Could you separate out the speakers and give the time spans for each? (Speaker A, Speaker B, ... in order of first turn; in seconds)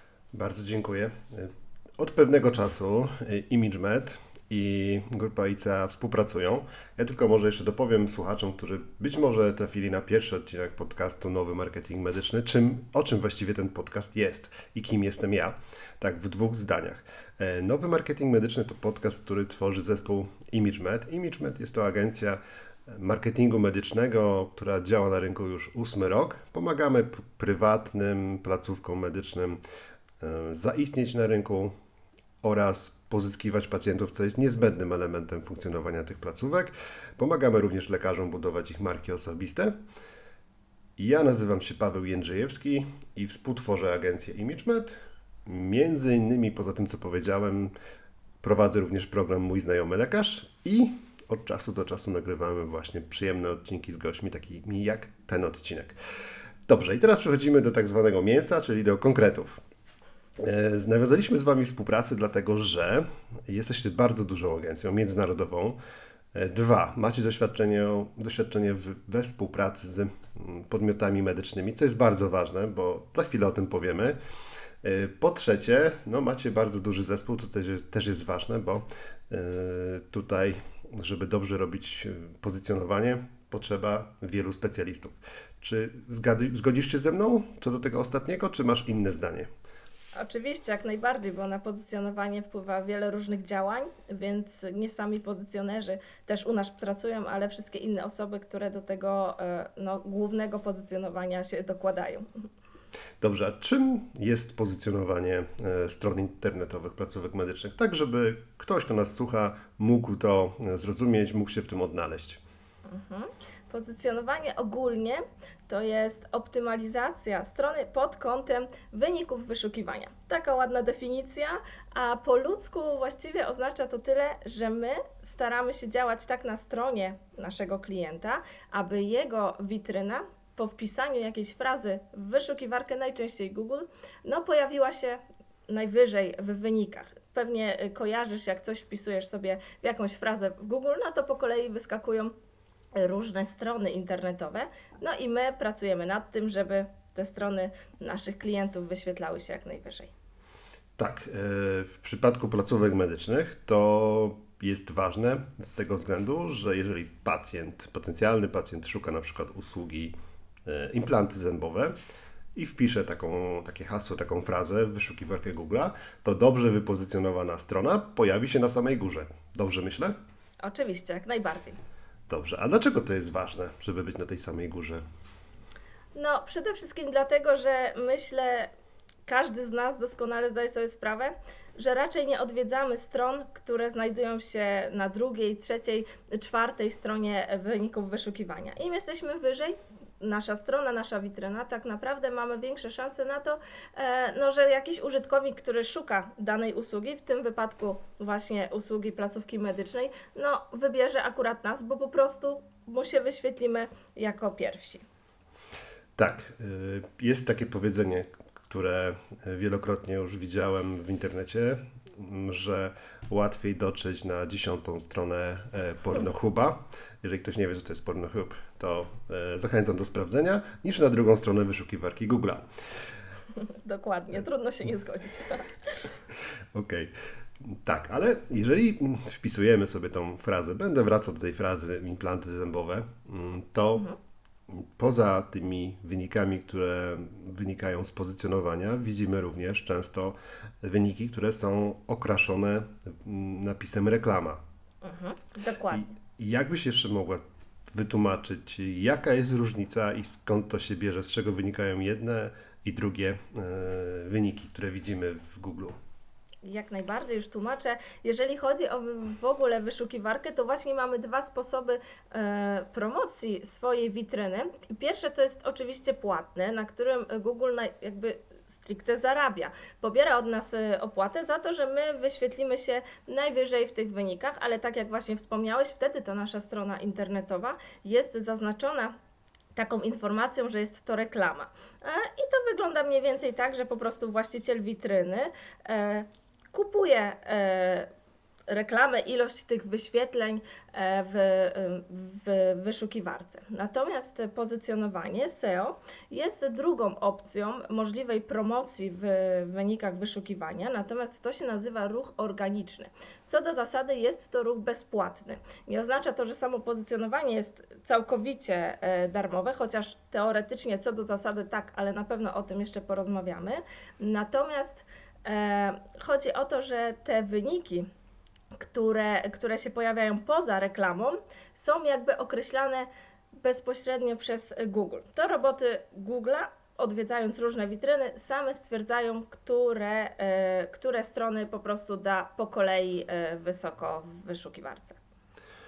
Speaker A: 0.3-29.6, 30.2-31.7, 32.4-39.7, 41.0-47.7, 48.4-56.0, 56.7-59.6, 60.4-65.8, 66.3-74.2, 74.8-89.5, 103.2-112.4, 151.0-160.2, 160.7-161.9, 162.6-170.2, 172.3-175.0, 206.2-222.7, 226.7-234.1, 234.7-244.6, 245.9-256.0
Speaker B: 90.2-102.3, 112.9-142.3, 142.9-150.1, 170.6-171.8, 176.2-178.7, 179.3-205.0, 223.6-226.1, 245.0-246.2, 256.6-279.1, 279.8-288.1, 288.7-318.1, 318.8-335.2